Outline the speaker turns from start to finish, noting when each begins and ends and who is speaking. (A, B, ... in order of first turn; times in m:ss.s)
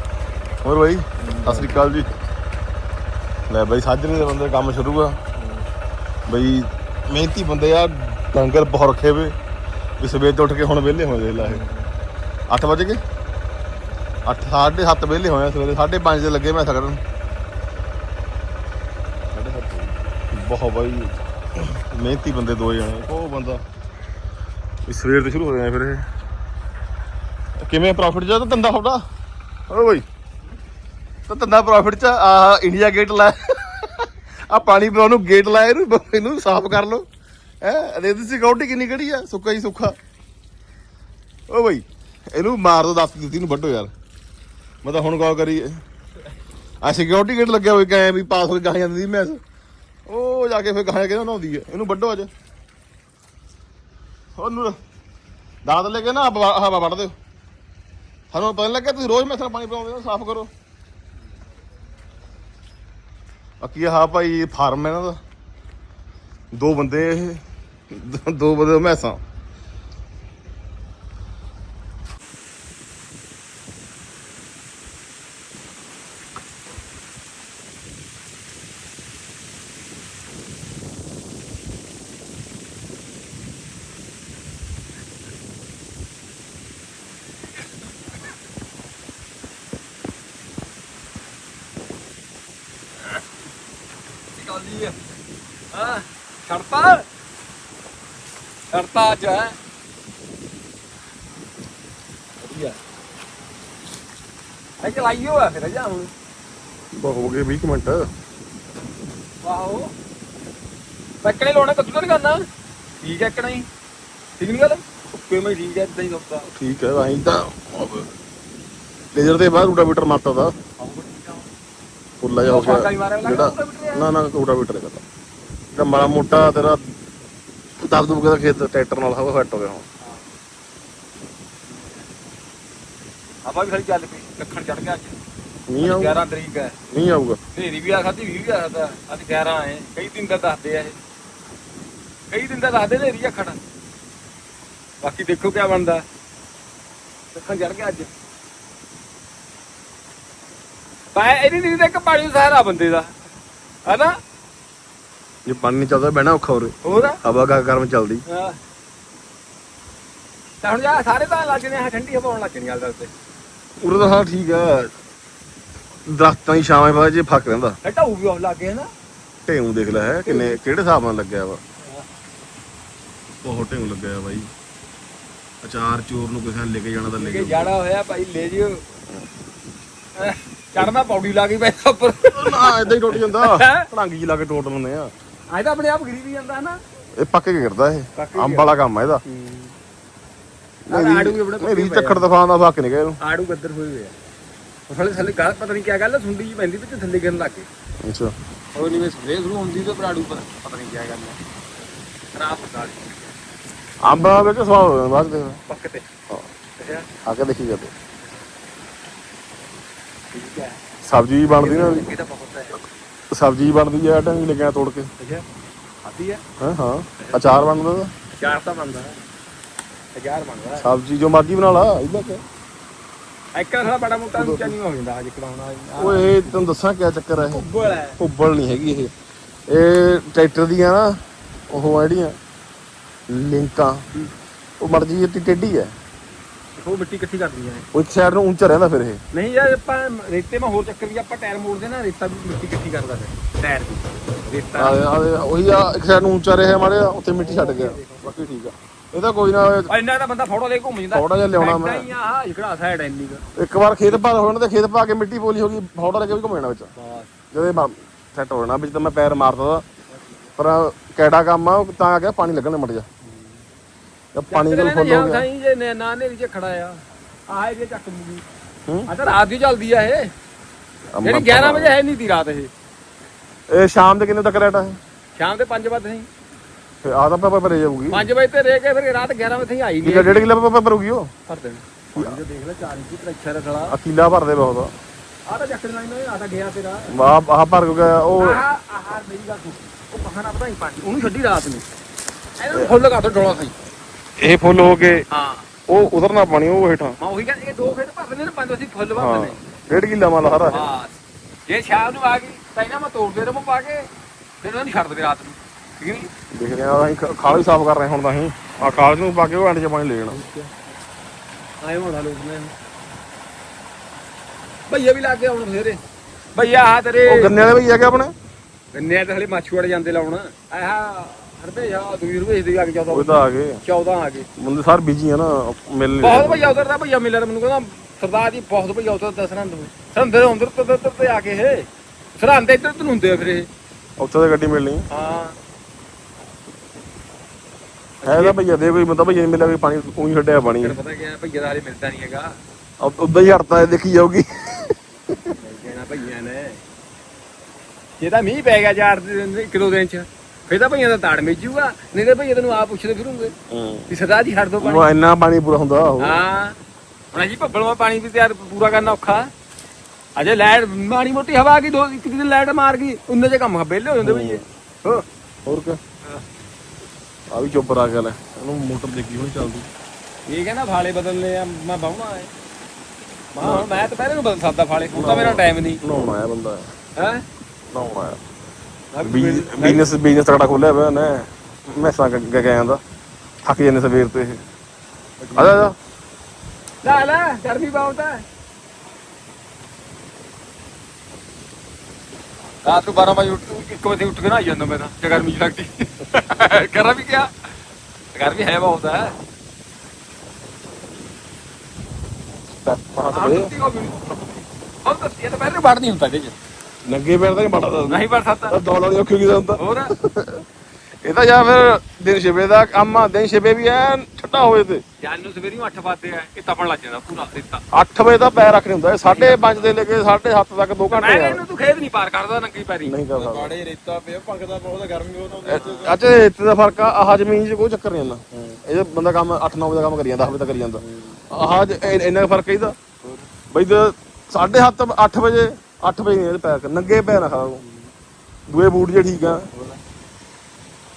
0:00.6-0:02.1 A
0:01.2-0:01.9 B
0:03.5-0:05.2 A
0:05.4-0:05.7 B
0:06.3-0:09.4 A
0:10.0-0:11.6 A
0:11.4-0:11.9 B
0:12.5-0:13.0 A
0:14.3-0:17.0 A
0:19.3-0:23.6 A
0:24.9-0:26.1 A
0:27.6-0:29.0 A
0:29.7-0:30.0 A
0:31.3-0:37.0 A
0:37.6-0:40.0 A
0:41.5-0:43.9 A
0:44.8-0:45.8 A
0:46.8-0:49.4 A
0:50.1-0:52.3 A
0:54.4-0:54.8 A
0:55.6-0:57.2 A
0:58.3-1:00.5 A
1:03.6-1:05.2 A
1:06.5-1:09.2 A
1:34.4-1:35.0 C
1:35.7-1:37.0 C
1:38.7-1:39.6 C
1:44.8-1:46.1 C
1:46.9-1:48.1 A
1:49.4-1:49.9 C
1:51.2-1:52.4 C
1:53.0-1:53.7 C
1:54.4-1:56.5 C
1:56.6-1:58.1 A
1:59.1-2:00.5 A
2:00.8-2:01.4 C
2:02.2-2:05.0 A
2:02.5-2:04.1 C
2:05.8-2:06.8 A
2:07.8-2:09.8 A
2:11.7-2:12.0 C
2:13.4-2:15.2 C
2:15.7-2:16.2 A
2:15.8-2:16.8 C
2:16.9-2:17.4 A
2:17.6-2:21.0 C
2:22.3-2:23.6 C
2:25.0-2:26.0 C
2:27.3-2:28.1 C
2:31.1-2:33.1 C
2:33.8-2:34.2 C
2:35.5-2:38.2 A
2:36.8-2:37.2 C
2:38.3-2:38.6 C
2:40.6-2:43.1 C
2:43.8-2:44.9 A
2:46.1-2:47.8 A
2:47.8-2:48.9 C
2:49.5-2:51.6 A
2:50.2-2:50.6 C
2:53.4-2:54.5 A
2:55.6-2:57.7 A
2:57.2-2:58.8 C
3:00.2-3:03.9 C
3:02.3-3:05.1 A
3:05.5-3:06.8 C
3:07.2-3:09.2 A
3:08.2-3:09.8 C
3:10.9-3:13.2 A
3:10.9-3:12.3 C
3:13.2-3:14.1 C
3:14.9-3:17.7 C
3:18.0-3:18.3 A
3:18.8-3:21.4 C
3:22.3-3:23.4 C
3:24.0-3:25.6 A
3:25.7-3:26.1 C
3:26.8-3:27.1 C
3:27.2-3:27.9 A
3:30.3-3:30.8 C
3:31.0-3:32.1 A
3:31.6-3:32.8 C
3:33.3-3:35.1 A
3:35.2-3:35.5 C
3:36.0-3:36.4 C
3:36.6-3:38.1 A
3:37.2-3:37.6 C
3:38.4-3:39.2 C
3:40.2-3:40.9 C
3:40.8-3:42.4 A
3:43.6-3:46.6 C
3:44.4-3:44.7 A
3:46.0-3:47.7 A
3:47.4-3:48.2 C
3:48.2-3:49.1 A
3:49.7-3:52.4 A
3:53.3-3:54.0 A
3:54.8-3:55.9 A
3:56.8-3:57.8 C
3:57.9-3:59.2 A
3:59.3-4:05.0 C
4:04.8-4:09.9 A
4:07.4-4:08.3 C
4:09.9-4:13.4 C
4:11.1-4:12.0 A
4:13.6-4:16.9 A
4:17.0-4:17.3 C
4:17.5-4:19.8 A
4:20.1-4:20.4 C
4:20.6-4:23.1 A
4:23.2-4:23.6 C
4:24.4-4:25.5 A
4:24.5-4:28.4 C
4:29.1-4:30.3 C
4:31.1-4:32.0 A
4:31.2-4:32.7 C
4:33.7-4:35.0 A
4:35.4-4:36.3 C
4:37.0-4:38.2 A
4:38.1-4:40.5 C
4:40.0-4:41.3 A
4:41.5-4:44.0 C
4:43.9-4:44.9 A
4:45.5-4:47.1 C
4:47.1-4:48.6 A
4:48.4-4:51.8 C
4:52.6-4:53.8 C
4:54.4-4:55.2 A
4:55.3-4:55.7 C
4:55.9-4:57.2 A
4:57.2-4:59.6 C
4:59.1-5:00.8 A
5:00.7-5:01.2 C
5:01.7-5:04.1 C
5:04.6-5:06.3 C
5:06.5-5:10.4 A
5:10.3-5:10.7 C
5:11.8-5:12.8 C
5:14.9-5:16.0 C
5:16.6-5:17.5 C
5:17.2-5:18.3 A
5:18.9-5:23.3 C
5:23.1-5:23.8 A
5:23.8-5:24.5 C
5:24.6-5:26.8 A
5:26.2-5:33.7 C
5:34.2-5:35.1 A
5:35.1-5:35.6 C
5:38.2-5:38.6 C
5:38.2-5:41.0 A
5:40.8-5:42.6 C
5:43.0-5:45.5 A
5:45.6-5:46.8 C
5:48.2-5:53.6 C
5:53.7-5:54.0 A
5:54.1-5:55.1 C
5:54.8-5:56.4 A
5:56.2-5:56.8 C
5:57.3-5:59.5 C
6:00.4-6:04.6 C
6:04.2-6:06.0 A
6:07.5-6:09.9 A
6:10.5-6:12.5 C
6:13.5-6:16.0 C
6:13.6-6:13.9 A
6:15.1-6:16.9 A
6:17.2-6:17.5 C
6:17.9-6:18.4 A
6:19.1-6:20.1 C
6:19.2-6:23.0 A
6:23.6-6:24.6 A
6:25.4-6:25.9 C
6:25.5-6:26.0 A
6:27.0-6:28.4 C
6:32.8-6:37.7 C
6:38.3-6:39.4 C
6:42.8-6:43.7 A
6:43.3-6:46.6 C
6:47.1-6:50.6 A
6:48.1-6:48.8 C
6:49.8-6:50.1 C
6:51.2-6:55.0 A
6:55.2-6:57.8 C
6:57.9-7:01.6 A
6:59.2-7:00.0 C
7:01.1-7:03.2 C
7:03.1-7:03.8 A
7:03.3-7:06.2 B
7:05.6-7:13.0 A
7:05.8-7:06.1 C
7:08.5-7:08.8 C
7:11.0-7:11.4 C
7:13.7-7:17.8 A
7:17.8-7:18.1 C
7:18.7-7:19.7 A